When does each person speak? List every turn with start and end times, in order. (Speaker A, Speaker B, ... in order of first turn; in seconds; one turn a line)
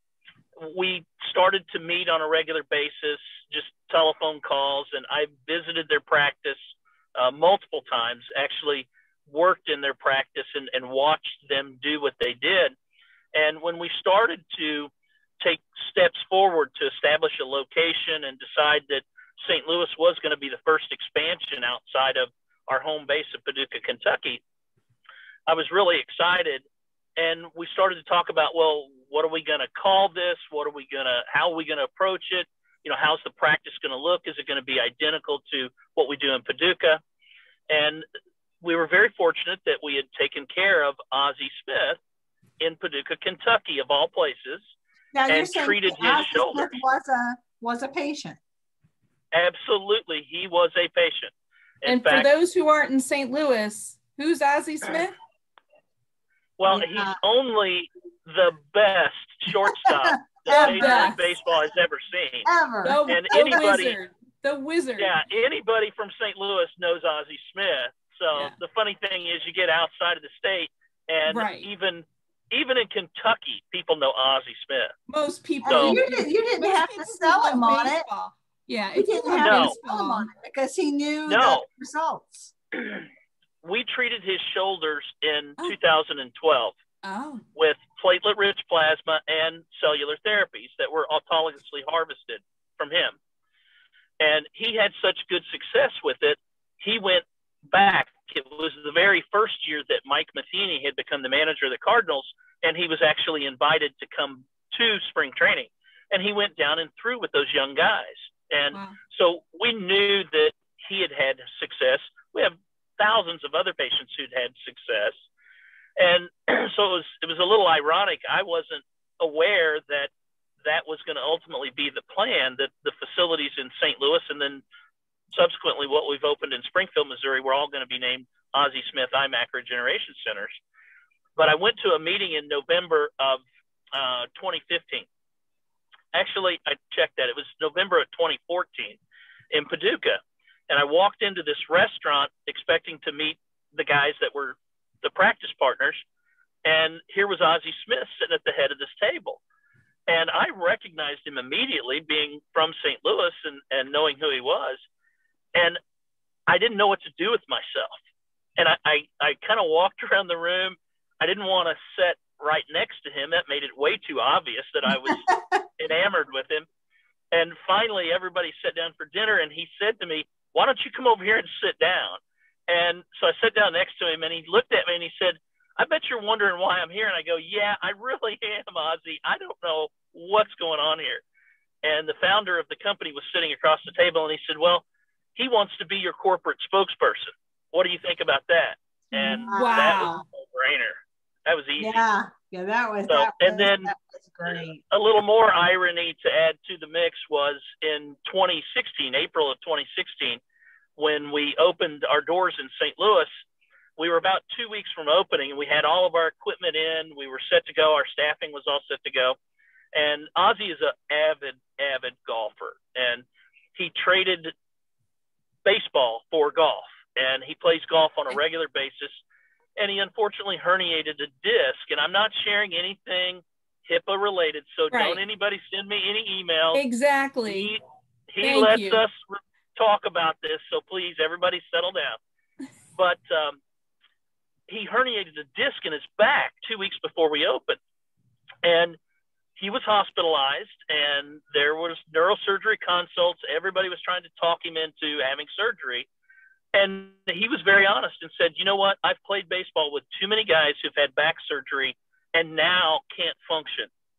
Speaker A: 0.6-12.7
Speaker A: 13.3-24.4
Speaker A: 25.5-26.6
Speaker A: 27.2-37.0
Speaker A: 37.7-38.0
Speaker A: 38.6-42.0
Speaker A: 42.6-44.7
Speaker B: 45.1-48.4
Speaker A: 45.3-46.8
Speaker A: 49.3-52.3
Speaker C: 51.8-55.1
Speaker A: 56.6-62.5
Speaker B: 56.7-57.2
Speaker B: 59.6-61.2
Speaker C: 60.5-61.3
Speaker B: 62.4-63.6
Speaker C: 62.8-65.1
Speaker A: 63.1-64.0
Speaker A: 65.0-74.9
Speaker C: 71.3-71.7
Speaker C: 75.1-80.3
Speaker B: 75.6-78.0
Speaker A: 75.7-76.0
Speaker B: 79.0-82.5
Speaker A: 79.4-79.7
Speaker A: 81.3-81.6
Speaker A: 82.7-83.0
Speaker A: 83.6-86.7
Speaker C: 87.0-87.4
Speaker A: 87.5-93.2
Speaker A: 94.2-115.2
Speaker A: 116.0-120.1
Speaker A: 120.6-124.6
Speaker A: 125.3-130.6
Speaker A: 131.3-135.1
Speaker A: 136.1-139.0
Speaker A: 139.5-146.0
Speaker A: 146.6-149.4
Speaker A: 150.1-154.8
Speaker A: 155.5-155.8
Speaker A: 156.5-158.0
Speaker A: 158.6-166.7
Speaker B: 165.3-165.6
Speaker A: 167.3-181.2
Speaker A: 181.8-184.8
Speaker A: 185.3-192.0
Speaker B: 189.1-190.2
Speaker C: 189.1-190.2
Speaker B: 191.8-194.8
Speaker A: 193.1-193.9
Speaker A: 194.9-200.4
Speaker A: 201.0-203.3
Speaker A: 204.0-209.4
Speaker A: 209.9-214.5
Speaker A: 215.6-219.2
Speaker A: 219.8-226.8
Speaker C: 224.9-225.2
Speaker C: 226.7-227.7
Speaker A: 227.4-232.2
Speaker C: 228.4-229.0
Speaker A: 232.9-233.6
Speaker A: 234.7-237.8
Speaker A: 238.6-239.0
Speaker A: 239.6-246.1
Speaker A: 246.7-253.9